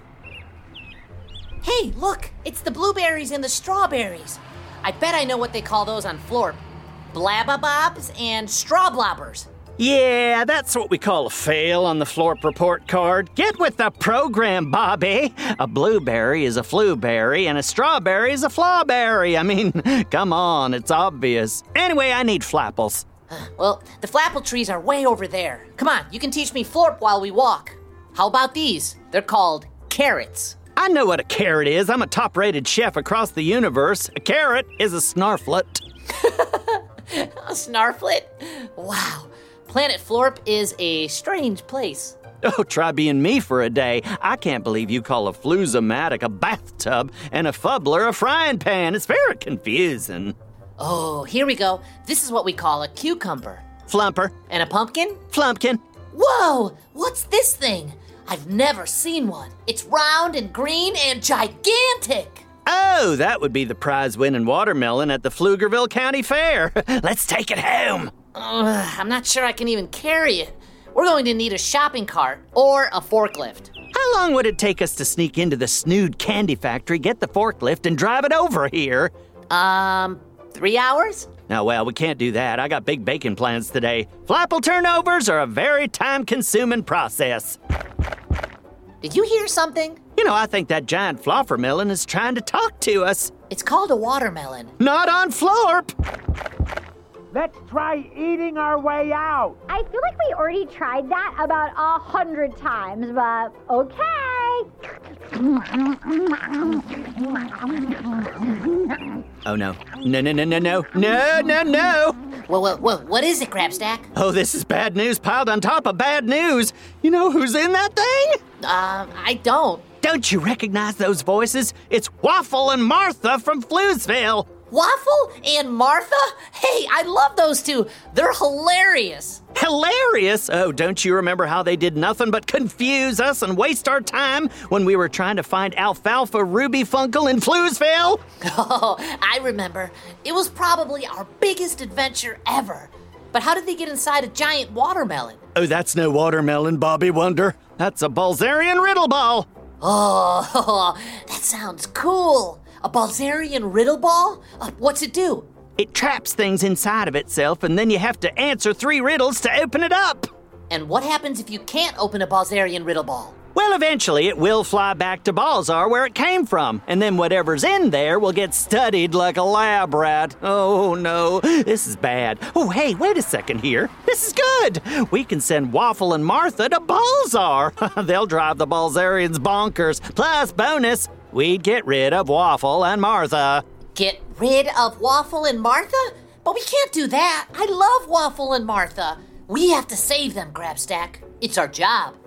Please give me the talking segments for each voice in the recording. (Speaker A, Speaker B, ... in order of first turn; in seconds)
Speaker A: 1.6-9.5, 23.3-30.6, 36.2-42.2, 50.8-53.6, 54.5-55.2, 56.1-62.4, 68.3-73.7, 79.5-81.3, 89.0-90.0, 93.5-94.7, 112.5-114.1, 118.6-119.8, 124.7-129.4, 138.4-145.4, 149.8-155.5, 160.7-163.3, 183.9-192.2
Speaker B: 9.8-23.1, 30.8-35.8, 42.4-50.4, 53.9-54.3, 55.3-55.8, 62.6-68.1, 73.9-79.1, 81.5-87.6, 90.2-93.3, 94.8-95.9, 109.4-112.2, 114.1-118.4, 120.0-124.5, 129.5-138.2, 145.5-149.5, 155.8-160.3, 163.5-183.6
Speaker C: 97.3-99.6
Speaker D: 99.7-104.7, 105.4-106.7